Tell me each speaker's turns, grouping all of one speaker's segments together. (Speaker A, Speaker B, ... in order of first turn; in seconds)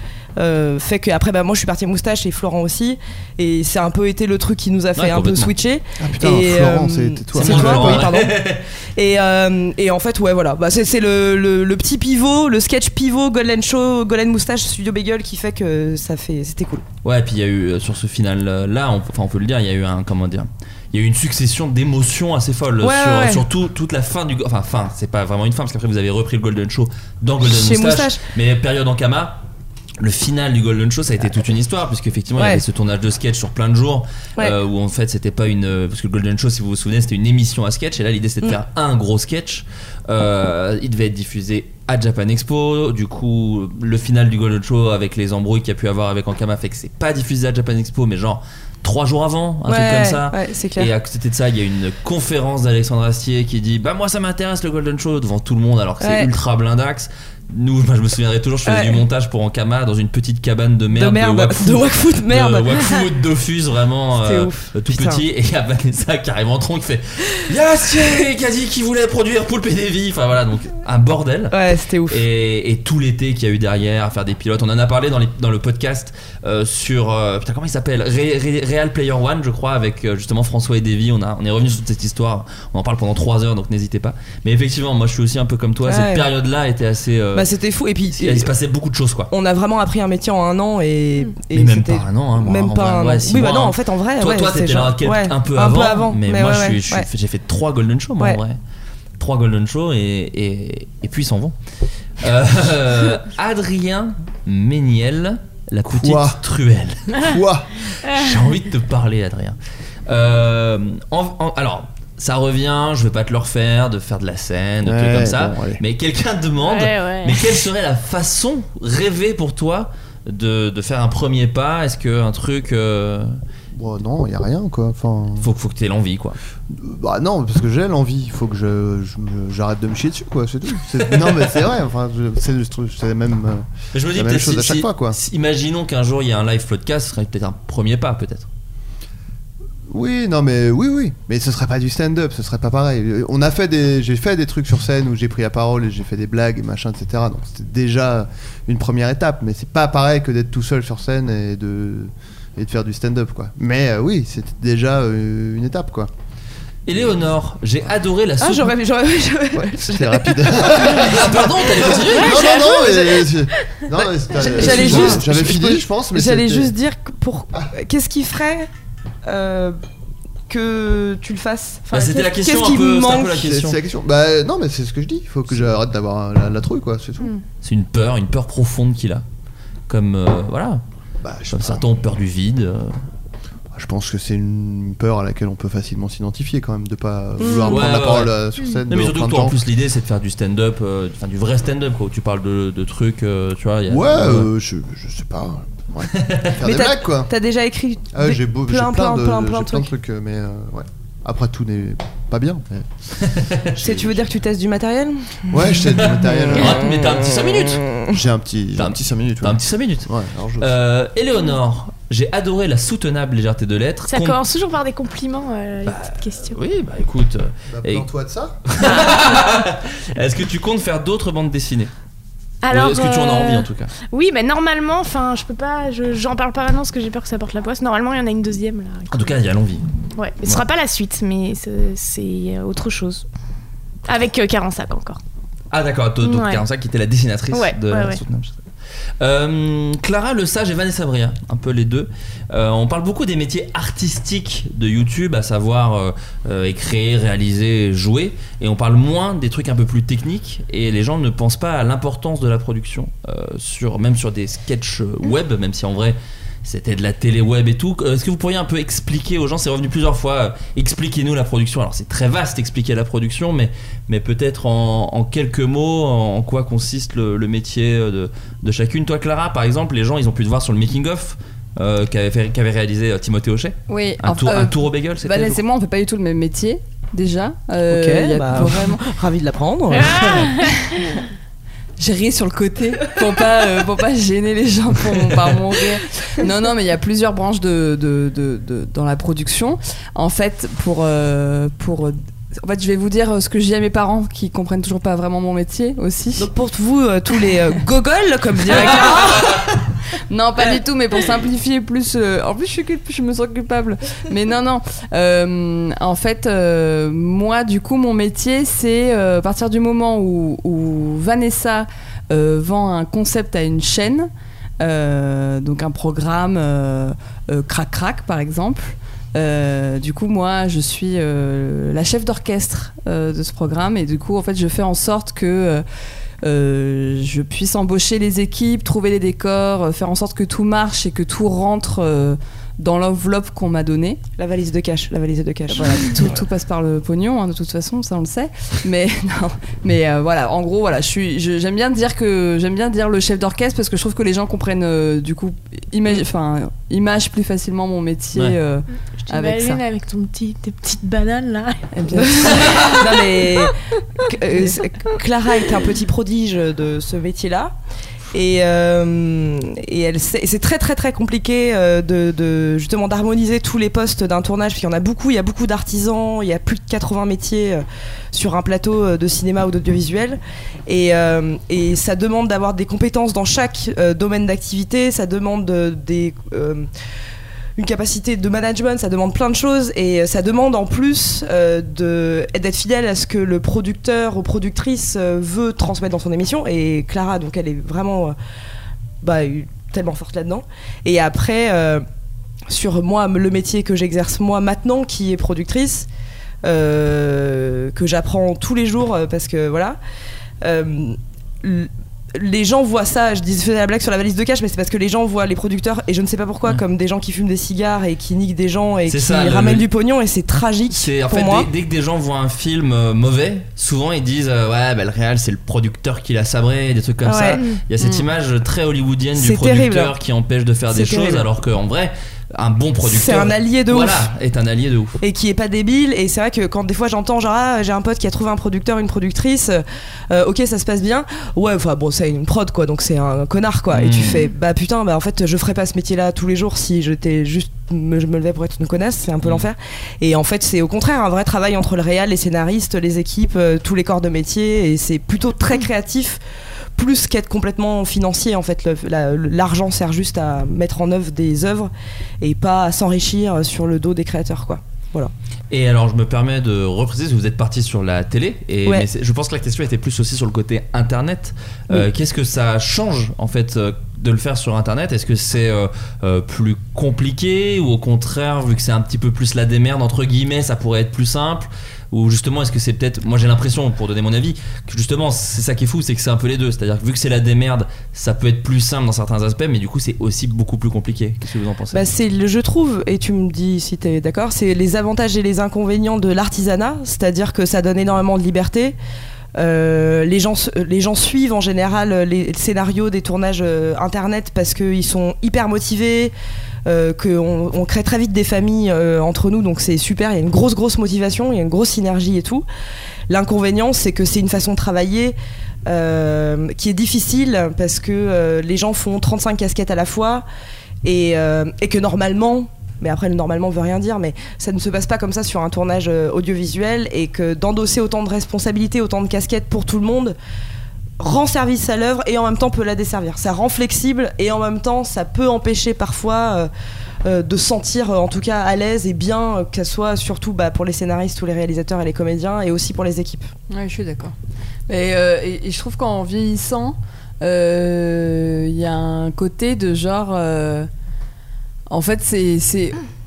Speaker A: 0.4-16.8, 22.8-23.4, 27.4-28.2, 32.4-32.6, 49.7-50.9, 56.0-56.3, 58.6-59.0, 60.9-63.0, 64.2-65.2, 71.5-72.2, 85.8-86.3, 87.3-88.5, 89.3-97.1, 158.4-161.1, 164.3-168.7, 169.2-169.8, 170.5-173.4, 187.4-188.0, 196.6-199.9, 203.8-208.1, 277.9-280.2, 296.4-299.7, 334.4-336.4, 352.1-357.7, 358.3-376.9, 377.8-388.4, 389.2-392.0, 392.7-396.1, 396.6-400.0, 400.6-411.7, 417.2-417.6, 419.4-420.1, 420.9-421.5, 423.0-424.3, 425.2-446.4, 446.9-455.3, 481.9-489.0, 489.6-496.3, 496.9-502.6, 503.3-510.4, 511.0-520.4, 521.2-526.7, 527.2-533.5
Speaker B: 5.0-5.5, 7.3-8.6, 17.0-29.4, 30.0-87.5, 88.1-89.3, 91.5-98.6, 99.2-101.5, 102.2-107.2, 108.0-123.4, 125.4-126.4, 131.0-131.6, 133.9-138.5, 156.8-158.7, 160.9-162.7, 164.6-165.3, 171.9-173.8, 177.6-179.2, 179.9-180.8, 181.5-182.9, 187.7-188.3, 188.9-194.5, 196.1-196.6, 203.2-203.8, 206.1-207.8, 208.8-214.4, 215.8-218.1, 218.7-221.9, 222.7-223.9, 229.1-229.8, 235.7-238.6, 239.2-275.6, 280.0-280.3, 352.6-353.0, 409.1-409.9, 410.9-425.2, 433.9-434.5, 455.7-482.1
Speaker C: 6.0-8.1, 105.8-106.4, 107.2-107.7, 114.8-115.8, 123.7-125.5, 126.7-135.2, 139.9-156.1, 159.5-166.7, 173.4-177.3, 181.2-181.8, 183.7-189.6, 193.9-197.3, 198.1-202.9, 203.8-204.1, 205.5-206.9, 208.1-210.7, 217.7-218.6
Speaker D: 108.0-108.3, 116.6-117.5, 162.2-163.3, 214.1-216.6, 218.8-219.2, 222.6-229.4, 230.2-233.2, 234.1-235.2, 236.2-236.6, 237.5-238.2, 279.9-281.0, 349.2-351.9
Speaker E: 273.9-279.0, 280.6-281.0, 282.0-296.5, 300.3-325.8, 326.4-334.2, 335.7-349.8, 351.9-352.7, 533.7-534.3, 534.9-540.9, 541.9-543.0